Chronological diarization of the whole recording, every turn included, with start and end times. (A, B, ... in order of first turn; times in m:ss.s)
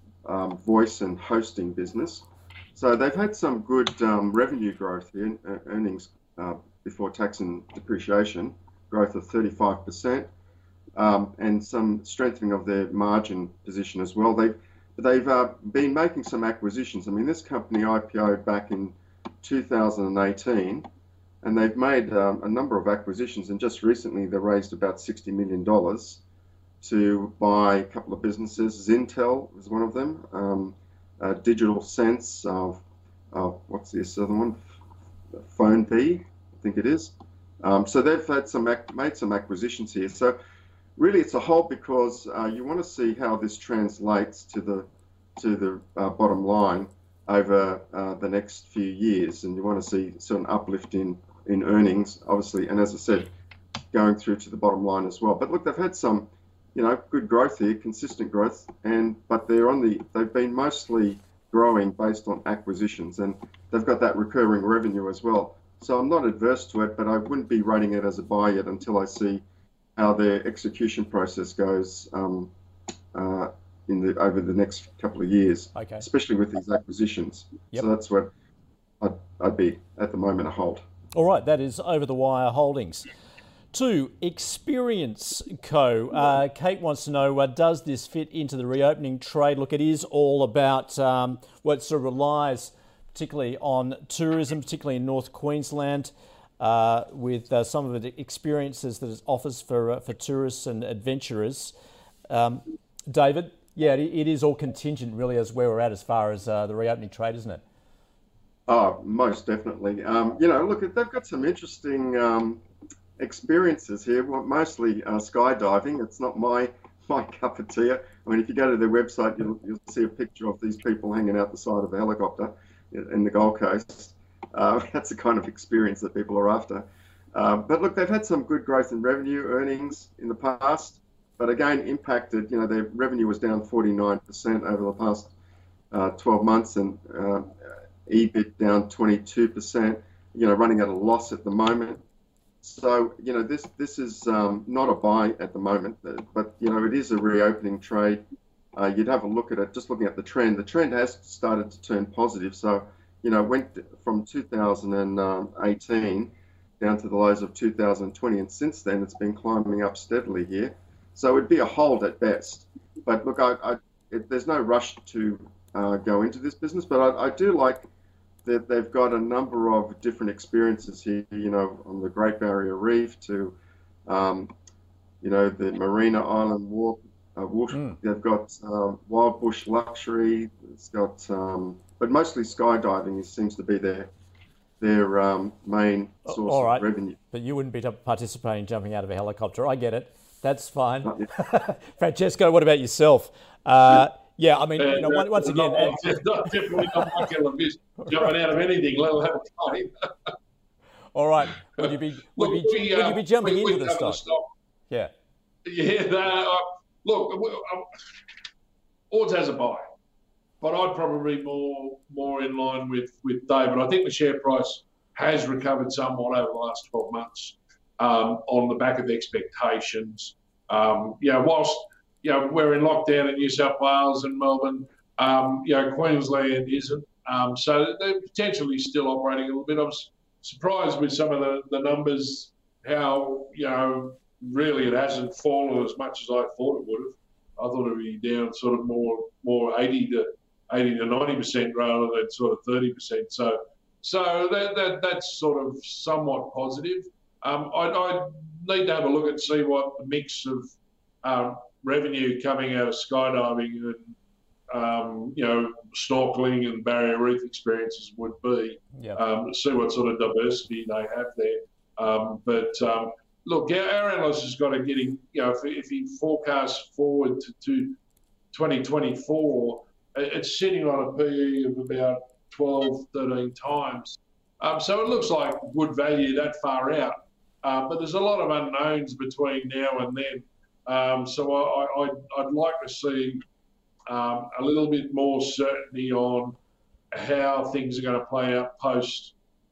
0:00.2-0:10.3 A
0:10.9-0:20.9 A
0:21.4-0:26.2 A
0:26.8-0:34.6 A
0:35.3-0:40.4 A
0:41.0-0:53.3 A
0:53.9-1:09.4 A
1:10.0-1:12.5 A
1:13.1-1:18.3 A
1:15.7-1:16.0 B
1:19.0-1:20.8 A
1:21.1-1:23.1 B
1:23.7-1:41.7 B
1:42.3-1:47.6 B
1:48.7-1:52.6 A
1:53.2-2:15.3 A
2:15.9-2:17.5 A
2:18.0-2:22.0 A
2:22.6-2:28.2 A
2:28.7-2:47.9 A
2:48.4-2:54.5 A
2:55.2-3:04.1 A
2:57.7-2:58.0 B
3:04.8-3:07.2 A
3:06.3-3:17.1 B
3:14.8-3:20.3 C
3:21.1-3:24.2 B
3:21.8-3:24.5 C
3:25.6-3:27.9 C
3:29.1-3:29.8 C
3:30.6-4:10.7 C
4:11.2-4:14.1 C
4:14.7-4:28.0 C
4:28.5-4:43.4 C
4:44.1-4:46.6 C
4:47.1-4:49.3 C